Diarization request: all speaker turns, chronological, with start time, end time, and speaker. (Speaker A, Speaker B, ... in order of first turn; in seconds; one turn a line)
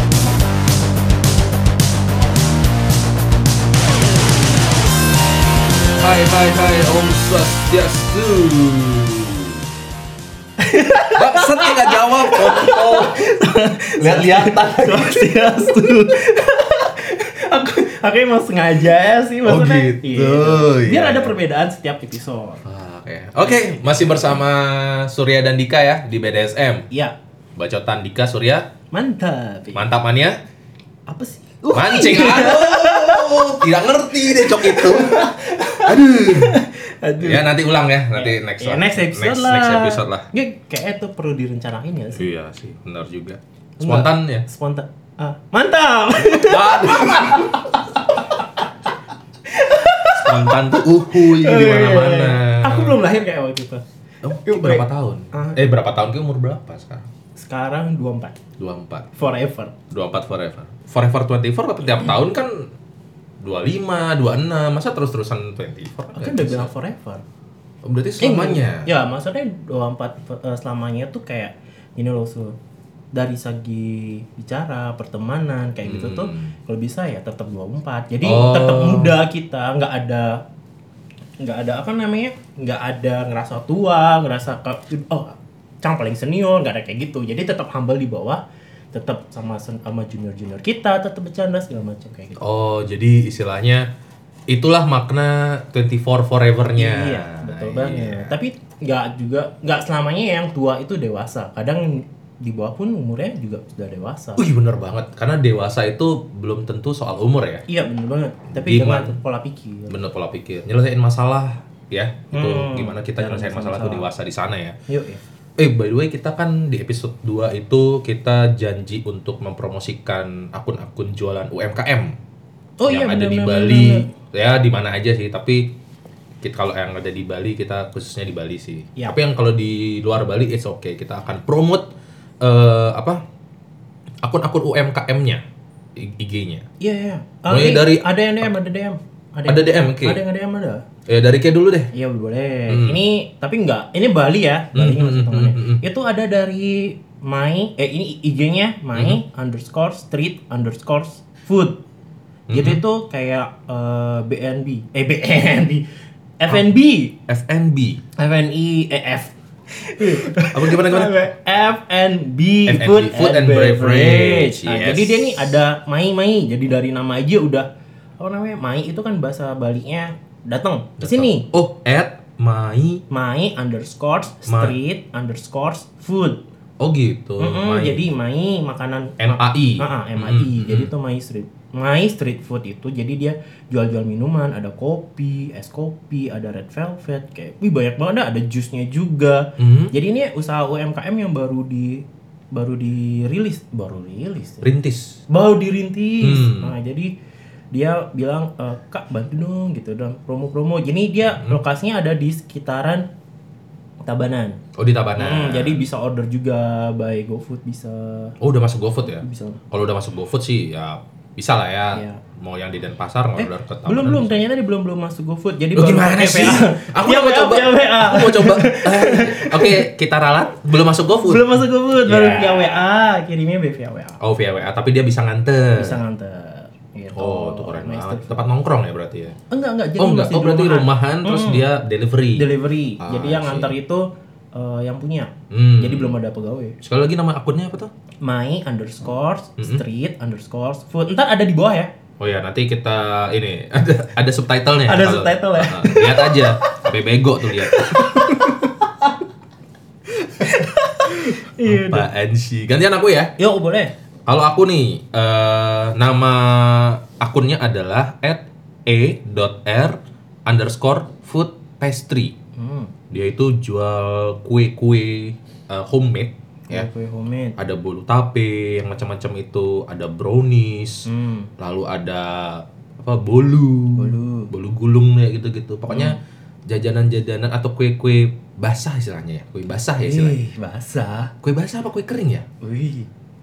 Speaker A: 6.0-9.6
Speaker B: 10.6-22.6
Speaker A: 11.2-13.3
Speaker A: 14.0-15.2
Speaker A: 19.4-21.3
Speaker A: 22.6-26.9
Speaker A: 27.6-28.7
Speaker B: 28.9-29.9
Speaker A: 29.7-30.4
Speaker B: 31.1-33.7
Speaker A: 31.7-36.6
Speaker B: 34.3-37.5
Speaker A: 37.2-40.3
Speaker B: 38.1-42.2
Speaker A: 42.1-44.5
Speaker B: 43.8-48.4
Speaker A: 46.2-47.7
Speaker B: 49.5-55.6
Speaker A: 50.1-53.0
Speaker A: 54.2-57.1
Speaker B: 57.4-58.4
Speaker A: 58.6-59.1
Speaker B: 59.2-59.7
Speaker A: 59.9-62.7
Speaker A: 63.4-66.7
Speaker B: 66.1-67.2
Speaker A: 67.8-68.9
Speaker B: 68.2-72.6
Speaker B: 73.1-80.4
Speaker A: 75.8-76.5
Speaker A: 78.2-79.2
Speaker B: 81.4-88.4
Speaker B: 88.9-92.4
Speaker A: 92.4-93.9
Speaker A: 94.5-98.3
Speaker B: 96.8-104.4
Speaker A: 104.4-107.6
Speaker B: 107.7-109.9
Speaker A: 108.5-109.2
Speaker A: 109.9-114.8
Speaker B: 112.3-114.1
Speaker B: 114.9-115.2
Speaker A: 115.6-122.1
Speaker B: 122.8-124.1
Speaker A: 122.9-125.7
Speaker A: 126.4-131.9
Speaker A: 132.4-133.2
Speaker A: 134.2-135.4
Speaker A: 135.9-136.7
Speaker B: 136.8-140.8
Speaker A: 137.5-138.1
Speaker A: 139.4-140.2
Speaker A: 141.1-141.9
Speaker B: 141.9-151.8
Speaker A: 142.7-143.0
Speaker A: 144.7-145.8
Speaker A: 148.9-149.2
Speaker A: 152.5-152.8
Speaker B: 152.5-155.8
Speaker B: 156.4-157.2
Speaker A: 157.2-158.0
Speaker B: 158.2-167.7
Speaker A: 160.3-161.1
Speaker A: 162.7-165.5
Speaker B: 168.2-171.5
Speaker A: 171.0-173.0
Speaker B: 173.1-176.4
Speaker A: 174.5-174.8
Speaker A: 176.8-178.1
Speaker B: 177.4-194.7
Speaker A: 179.2-180.9
Speaker A: 189.6-189.9
Speaker A: 194.6-195.2
Speaker B: 195.3-197.1
Speaker A: 196.2-196.7
Speaker B: 197.7-203.1
Speaker A: 201.3-201.6
Speaker B: 204.0-204.6
Speaker A: 204.8-205.8
Speaker B: 205.2-208.4
Speaker A: 208.4-214.4
Speaker B: 209.0-209.6
Speaker B: 211.9-212.2
Speaker B: 213.4-219.9
Speaker A: 215.7-222.8
Speaker B: 221.2-224.2
Speaker A: 224.2-226.0
Speaker B: 225.8-228.4
Speaker A: 227.1-229.4
Speaker B: 229.5-231.7
Speaker A: 230.0-232.5
Speaker B: 232.3-236.8
Speaker A: 233.0-233.7
Speaker A: 235.5-236.2
Speaker A: 236.8-237.9
Speaker B: 238.2-241.9
Speaker A: 242.2-248.6
Speaker B: 244.9-246.7
Speaker B: 247.7-249.1
Speaker B: 250.3-252.1
Speaker A: 251.6-253.3
Speaker B: 253.4-253.9
Speaker A: 254.3-262.3
Speaker B: 262.6-262.9
Speaker A: 263.1-266.9
Speaker B: 266.7-267.6
Speaker A: 267.6-280.3
Speaker B: 271.1-271.5
Speaker B: 274.0-274.5
Speaker B: 275.9-276.1
Speaker B: 280.0-281.3
Speaker A: 281.4-282.4
Speaker B: 282.6-283.1